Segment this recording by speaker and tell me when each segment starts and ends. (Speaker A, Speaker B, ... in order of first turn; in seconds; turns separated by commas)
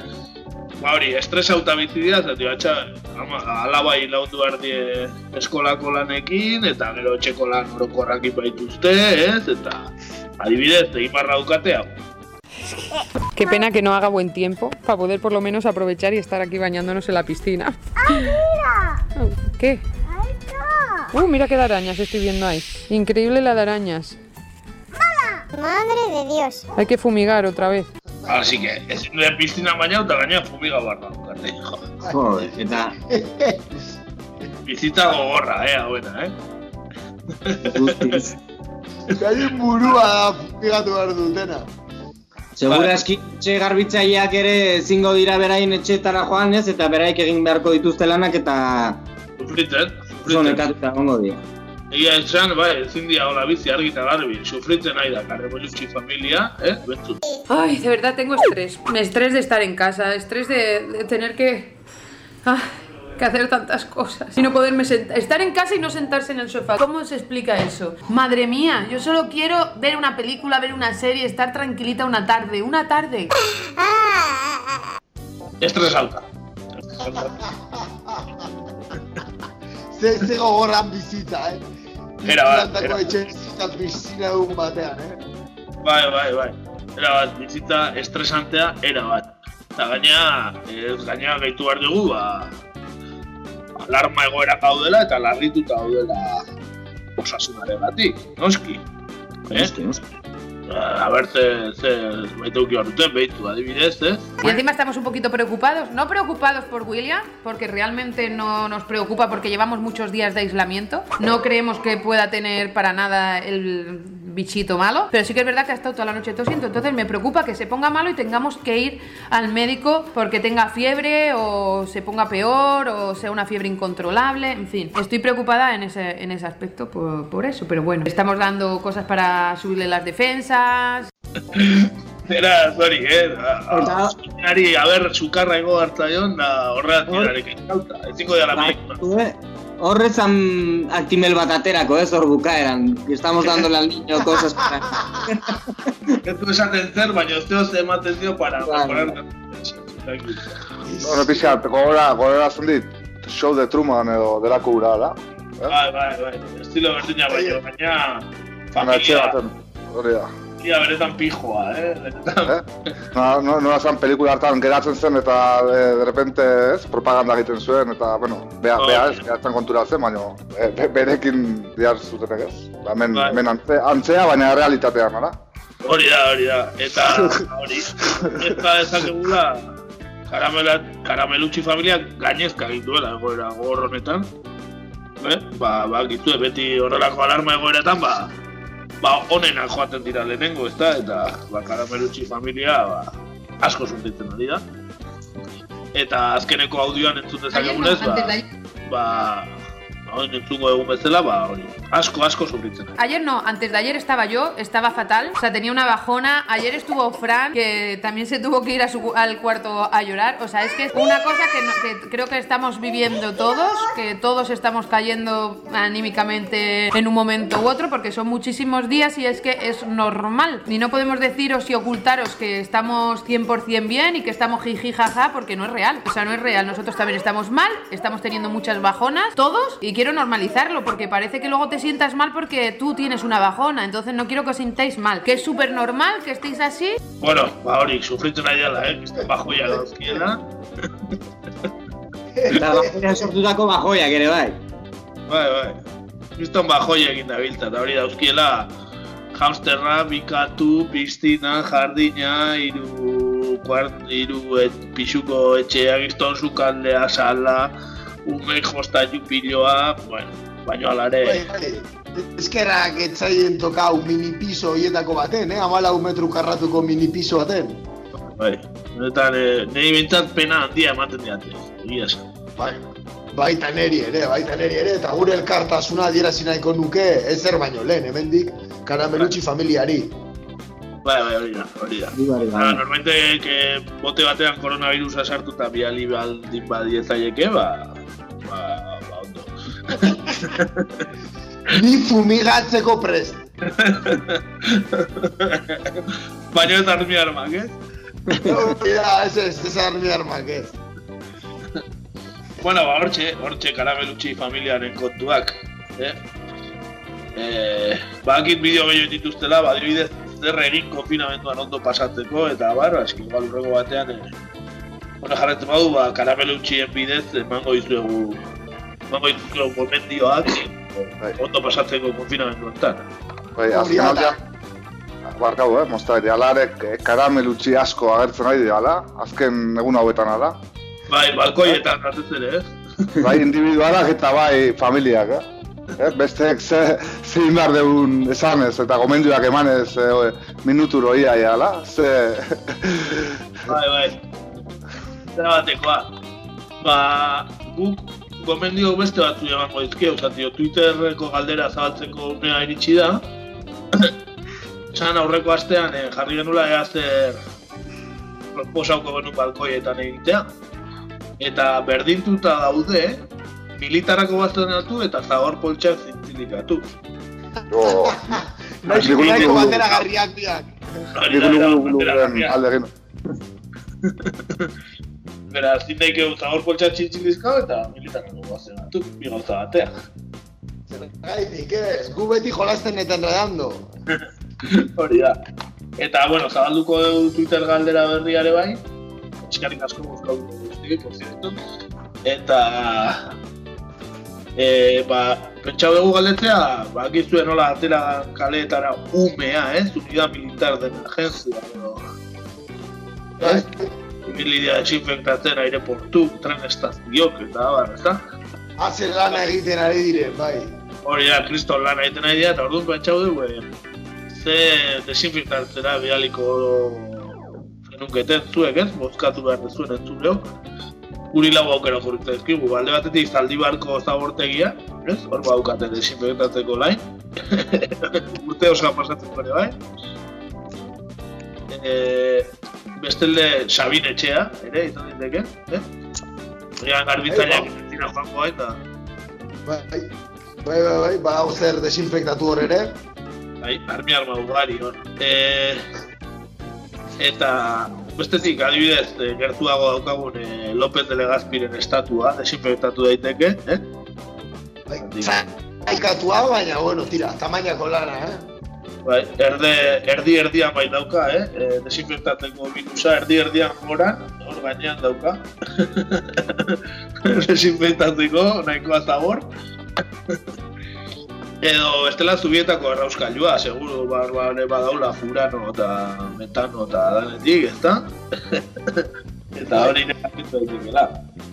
Speaker A: 0.8-11.9, Speaker B: 13.3-18.3, Speaker C: 18.0-19.0, Speaker B: 19.1-19.8, Speaker C: 20.1-21.1, Speaker B: 21.1-24.2, Speaker C: 25.0-26.7, Speaker B: 26.8-27.9, Speaker A: 28.3-31.8, Speaker D: 32.0-32.5, Speaker E: 32.1-32.9, Speaker D: 33.1-33.9, Speaker A: 34.6-36.3, Speaker A: 37.4-38.1, Speaker E: 37.7-38.3, Speaker D: 39.1-41.7, Speaker E: 42.6-49.0, Speaker A: 42.7-43.0, Speaker A: 49.4-50.6, Speaker E: 50.2-51.4, Speaker A: 51.9-57.2, Speaker B: 57.5-61.7, Speaker B: 62.4-73.3, Speaker C: 73.8-74.3, Speaker A: 75.6-76.2, Speaker A: 77.0-77.3, Speaker D: 77.0-78.5, Speaker D: 79.9-81.6, Speaker D: 82.2-85.2, Speaker A: 82.2-83.0, Speaker A: 85.8-92.5, Speaker A: 93.8-96.4, Speaker A: 97.2-98.8, Speaker E: 99.5-100.0, Speaker A: 100.7-104.6, Speaker B: 104.4-131.1, Speaker A: 131.5-139.0, Speaker E: 133.7-134.1, Speaker E: 138.5-146.2, Speaker A: 146.2-150.6, Speaker E: 148.6-149.1, Speaker D: 150.9-151.5, Speaker F: 151.0-155.8, Speaker A: 155.7-159.4, Speaker D: 157.3-157.6, Speaker F: 158.8-160.3, Speaker A: 160.6-162.6, Speaker F: 162.5-175.3, Speaker A: 168.8-169.2, Speaker A: 173.1-173.4, Speaker A: 175.8-179.7, Speaker F: 178.1-178.4, Speaker A: 180.3-184.3, Speaker A: 185.2-188.3, Speaker A: 189.0-193.1, Speaker A: 193.6-194.6, Speaker A: 195.9-202.9, Speaker B: 197.5-198.4, Speaker B: 203.0-237.0, Speaker A: 237.2-240.4, Speaker D: 239.5-240.2, Speaker D: 242.3-243.3, Speaker E: 242.5-244.6, Speaker A: 245.3-245.8, Speaker A: 246.4-248.7, Speaker A: 249.3-257.7, Speaker A: 258.2-261.4, Speaker D: 261.2-267.8, Speaker A: 268.3-272.2, Speaker D: 272.6-280.1, Speaker A: 281.0-291.0, Speaker E: 282.1-282.8, Speaker D: 291.7-293.4, Speaker A: 293.6-297.8, Speaker D: 298.4-300.8, Speaker A: 302.6-306.2, Speaker A: 307.4-314.3, Speaker A: 315.2-318.4, Speaker A: 319.1-323.1, Speaker F: 323.6-324.4, Speaker D: 323.7-324.4, Speaker F: 325.3-330.6, Speaker A: 331.1-332.7, Speaker F: 333.2-335.4, Speaker F: 336.0-343.7, Speaker A: 343.7-344.2, Speaker A: 345.4-346.1, Speaker A: 346.8-353.2, Speaker A: 354.9-357.4, Speaker A: 358.5-360.4, Speaker A: 361.4-363.2, Speaker A: 363.7-366.8, Speaker F: 367.7-368.4, Speaker D: 367.8-371.1, Speaker A: 368.9-370.0, Speaker F: 368.9-369.8, Speaker A: 371.1-372.6, Speaker F: 371.2-372.9, Speaker A: 374.0-374.7, Speaker A: 375.5-379.9, Speaker D: 380.9-383.9, Speaker A: 384.1-385.4, Speaker A: 386.0-388.8, Speaker A: 389.4-391.5, Speaker A: 392.2-393.2, Speaker A: 394.6-402.0, Speaker A: 403.4-403.6, Speaker D: 403.4-403.9, Speaker A: 404.2-408.2, Speaker D: 408.8-410.7, Speaker A: 411.0-413.6, Speaker A: 414.3-420.4, Speaker A: 421.3-429.8, Speaker A: 431.7-435.8, Speaker A: 436.8-438.8, Speaker D: 437.3-437.7, Speaker D: 439.6-440.1, Speaker D: 440.6-442.9, Speaker A: 443.6-445.8, Speaker A: 447.2-453.8, Speaker D: 454.9-458.4, Speaker A: 455.0-455.4, Speaker A: 459.0-469.5, Speaker A: 471.6-481.1, Speaker D: 479.7-479.9